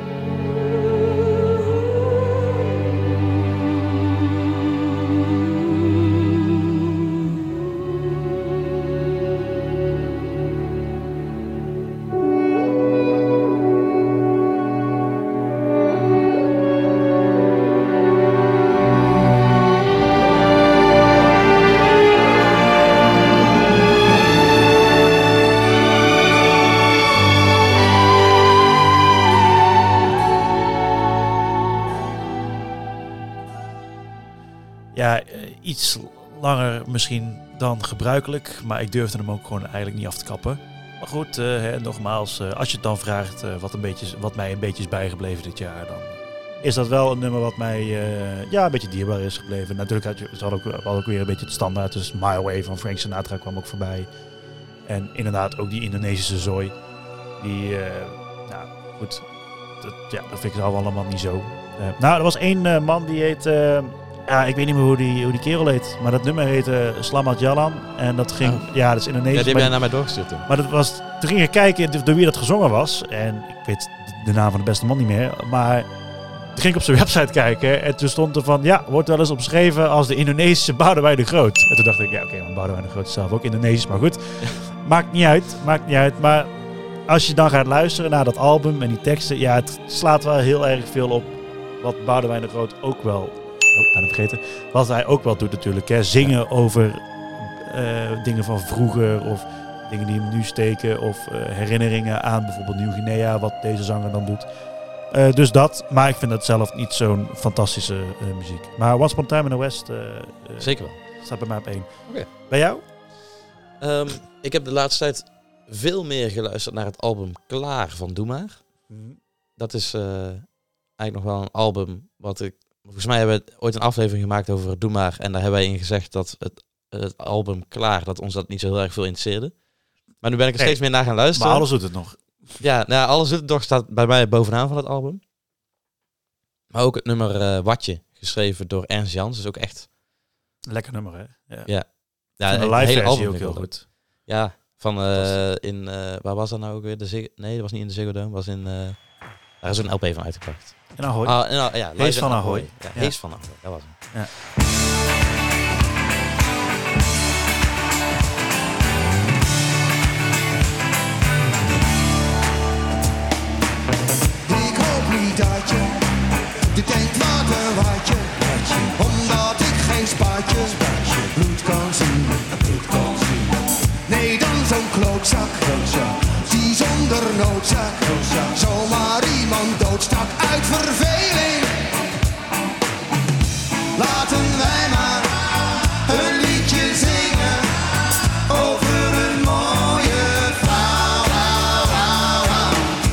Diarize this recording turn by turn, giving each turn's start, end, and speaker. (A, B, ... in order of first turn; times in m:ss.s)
0:34.9-0:54.1 A
0:54.8-0:56.7 A
0:57.4-0:59.2 A
0:59.8-1:09.8 A
1:08.4-1:08.7 B
1:09.3-1:10.5 B
1:10.4-1:15.9 A
1:16.5-1:26.5 A
1:27.1-1:44.5 A
1:45.1-1:52.8 A
1:50.6-1:51.0 B
1:53.8-1:58.6 B
1:58.9-1:59.2 A
1:59.6-2:09.6 B
2:10.1-2:11.7 B
2:10.6-2:12.5 A
2:12.6-2:15.2 B
2:16.7-2:19.9 B
2:20.7-2:23.8 A
2:21.6-2:34.0 B
2:25.1-2:25.4 A
2:31.0-2:34.3 A
2:44.4-2:46.0 C
2:46.7-3:01.9 C
3:03.9-3:05.4 C
3:06.0-3:07.8 C
3:08.5-3:13.0 C